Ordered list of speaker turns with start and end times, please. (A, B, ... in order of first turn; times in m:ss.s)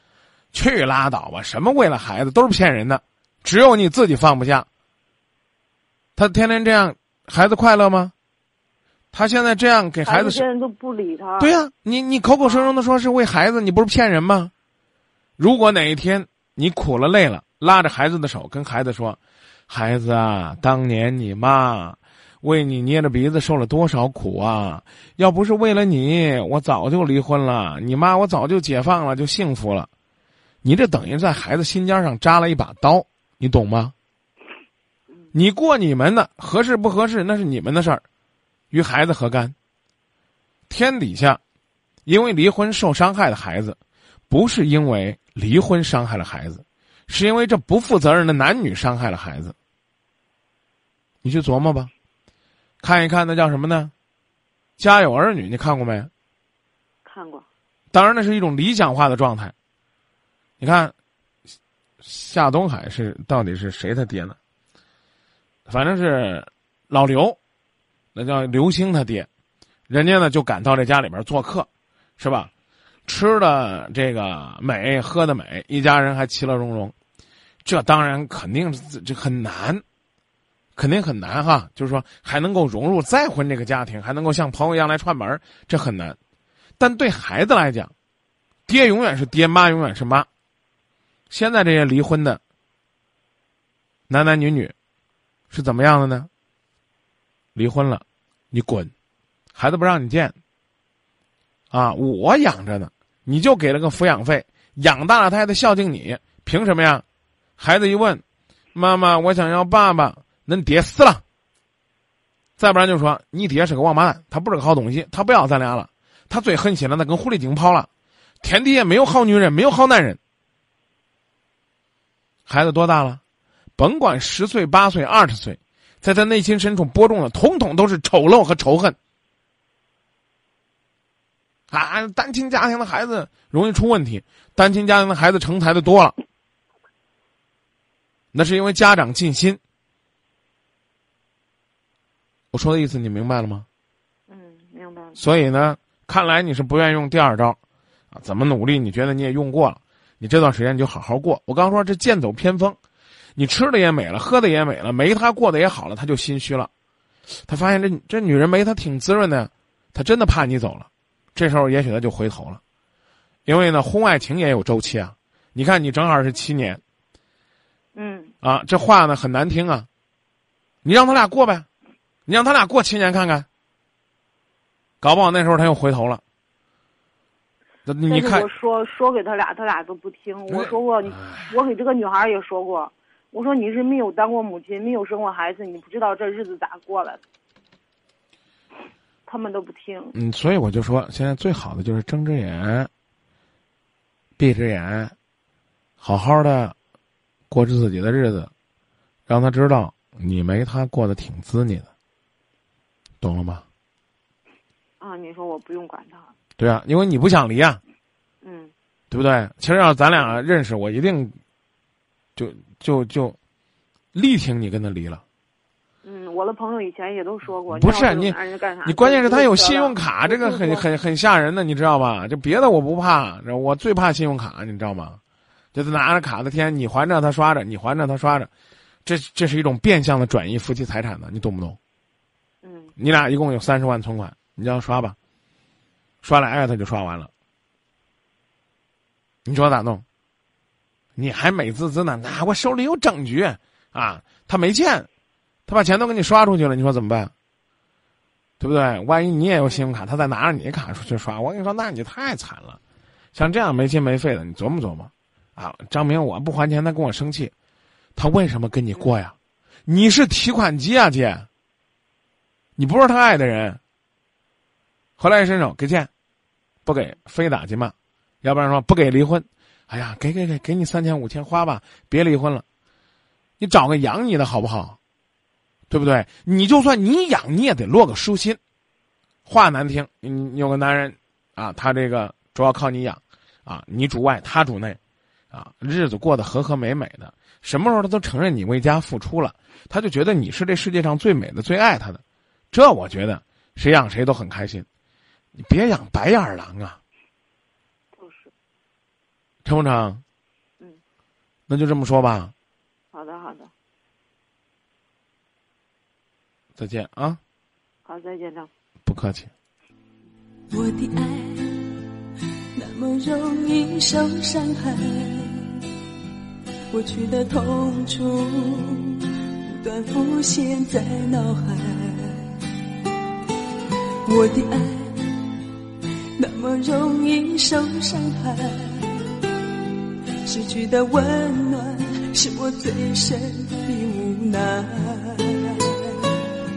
0:00.5-0:04.7 A
0:06.2-0:08.1 A
0:09.1-0:10.4 A
0:10.0-0:11.5 B
0:11.4-0:14.5 A
0:12.4-0:12.7 B
0:15.4-0:19.2 A
0:19.7-0:29.9 A
0:30.6-0:33.9 A
0:35.3-0:38.0 A
0:38.7-0:39.6 A
0:40.7-0:41.4 A
0:42.1-0:43.8 A
0:44.3-0:49.6 A
0:51.2-0:51.9 A
0:52.8-0:53.9 A
0:54.8-0:56.1 A
0:57.0-0:57.5 B
0:57.9-0:59.5 A
1:00.6-1:00.9 A
1:02.0-1:04.4 A
1:05.7-1:07.4 A
1:08.1-1:09.3 A
1:09.9-1:11.7 A
1:12.2-1:12.5 A
1:13.1-1:16.9 A
1:17.6-1:19.8 A
1:20.8-1:26.2 A
1:26.8-1:27.9 A
1:28.7-1:30.3 A
1:31.3-1:32.4 A
1:34.1-1:34.8 A
1:35.5-1:36.3 A
1:37.6-1:38.9 A
1:39.6-1:40.4 A
1:41.7-1:47.0 A
1:47.6-1:48.2 A
1:48.8-1:51.2 A
1:52.6-1:57.9 A
1:58.4-2:00.2 A
2:02.5-2:03.2 A
2:03.8-2:09.0 A
2:11.7-2:16.1 A
2:18.3-2:19.6 A
2:22.5-2:23.6 A
2:24.3-2:25.2 B
2:25.2-2:27.6 A
2:28.1-2:32.8 A
2:33.4-2:36.7 A
2:37.5-2:42.6 A
2:43.5-2:46.8 A
2:48.0-2:48.3 B
2:48.4-2:49.9 A
2:50.8-2:51.6 A
2:52.3-2:53.5 A
2:55.0-2:56.2 A
2:57.9-2:58.5 A
2:58.1-3:07.2 B
3:00.5-3:01.5 A
3:09.2-3:10.2 B
3:10.1-3:12.9 A
3:14.4-3:15.1 A
3:16.0-3:16.8 A
3:17.5-3:18.5 A
3:19.3-3:21.9 A
3:23.2-3:23.6 A
3:25.0-3:26.3 B
3:26.6-3:27.8 A
3:28.4-3:28.7 B
3:29.1-3:31.4 A
3:32.4-3:33.4 A
3:34.1-3:35.2 A
3:36.0-3:40.9 B
3:37.7-3:45.2 A
3:45.7-3:48.5 A
3:49.1-3:51.8 A
3:52.6-3:52.9 B
3:53.0-3:55.2 A
3:56.2-3:57.3 A
3:59.5-4:00.0 A
4:01.2-4:05.1 A
4:05.7-4:07.3 A
4:08.6-4:12.8 A
4:13.3-4:17.5 A
4:18.2-4:19.4 A
4:19.9-4:21.5 A
4:22.8-4:23.8 A
4:25.2-4:26.1 A
4:26.9-4:32.6 A
4:33.6-4:35.0 A
4:35.9-4:38.6 A
4:39.5-4:45.0 A
4:45.5-4:54.9 A
4:55.6-4:57.0 A
4:58.2-4:58.5 B
4:59.6-5:00.2 A
5:01.7-5:02.5 A
5:03.1-5:03.7 B
5:06.8-5:07.4 A
5:08.0-5:08.7 B
5:09.0-5:09.5 A
5:10.7-5:11.9 C
5:12.8-5:15.8 C
5:16.9-5:22.6 C
5:24.2-5:25.5 C
5:26.4-5:29.4 C
5:30.4-5:36.3 C